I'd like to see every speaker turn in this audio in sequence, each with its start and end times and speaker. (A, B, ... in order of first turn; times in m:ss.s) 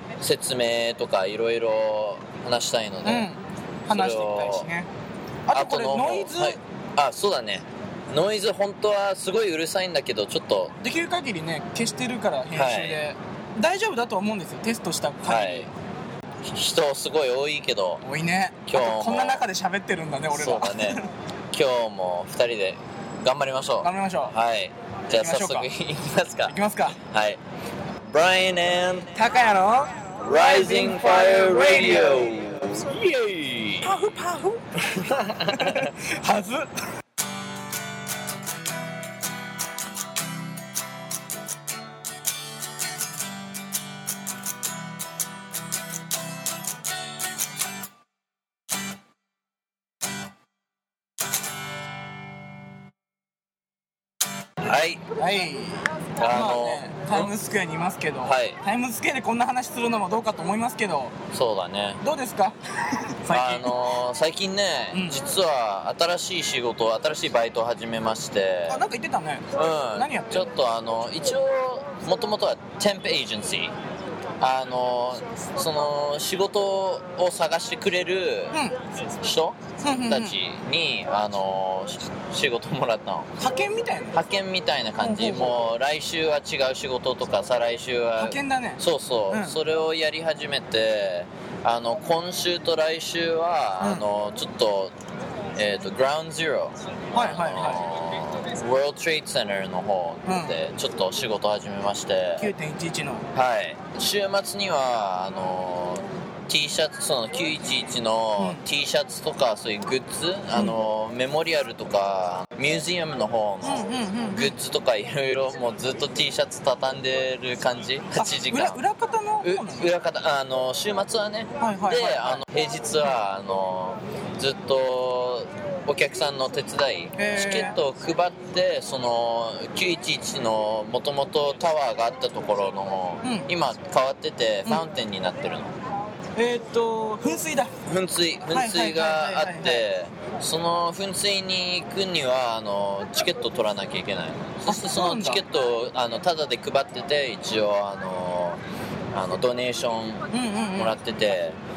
0:00.2-0:03.3 A
0:03.0-0:04.9 B
0:03.9-0:04.7 A
0:05.5-0:06.6 B
0:05.5-0:10.8 A
0:10.8-0:15.7 B
0:12.5-0:13.0 A
0:15.2-0:15.7 A
0:16.4-0:18.0 A
0:18.0-0:21.1 B
0:18.7-0:19.4 A
0:20.3-0:21.0 A
0:21.5-0:27.4 A
0:23.8-0:24.4 B
0:25.1-0:25.7 B
0:26.5-0:27.0 B
0:28.1-0:29.1 A
0:29.1-0:32.4 B
0:30.2-0:34.0 A
0:33.8-0:34.8 B
0:34.8-0:35.9 A
0:35.4-0:36.7 B
0:54.6-0:55.1 A
0:55.2-1:01.2 B
0:56.2-0:57.3 A
0:58.2-0:58.6 A
1:01.3-1:02.0 A
1:02.0-1:03.8 B
1:03.3-1:08.8 A
1:04.9-1:05.2 B
1:08.7-1:10.4 B
1:09.5-1:13.7 A
1:14.4-1:23.4 A
1:18.5-1:18.8 B
1:19.8-1:20.4 B
1:23.4-1:24.2 B
1:24.1-1:34.9 A
1:25.0-1:25.5 B
1:28.2-1:29.6 B
1:33.8-1:34.0 B
1:35.5-1:42.5 A
1:37.1-1:37.8 B
1:40.3-1:40.6 B
1:42.4-1:43.3 B
1:43.3-1:58.8 A
1:53.6-1:54.5 B
1:58.2-1:59.9 B
1:59.4-2:15.8 A
2:01.6-2:02.4 B
2:07.2-2:07.8 B
2:13.2-2:13.5 B
2:16.4-2:17.7 B
2:17.8-2:28.6 A
2:18.5-2:19.9 B
2:24.6-2:25.4 B
2:29.1-2:30.2 A
2:30.3-2:31.0 B
2:30.8-2:31.6 A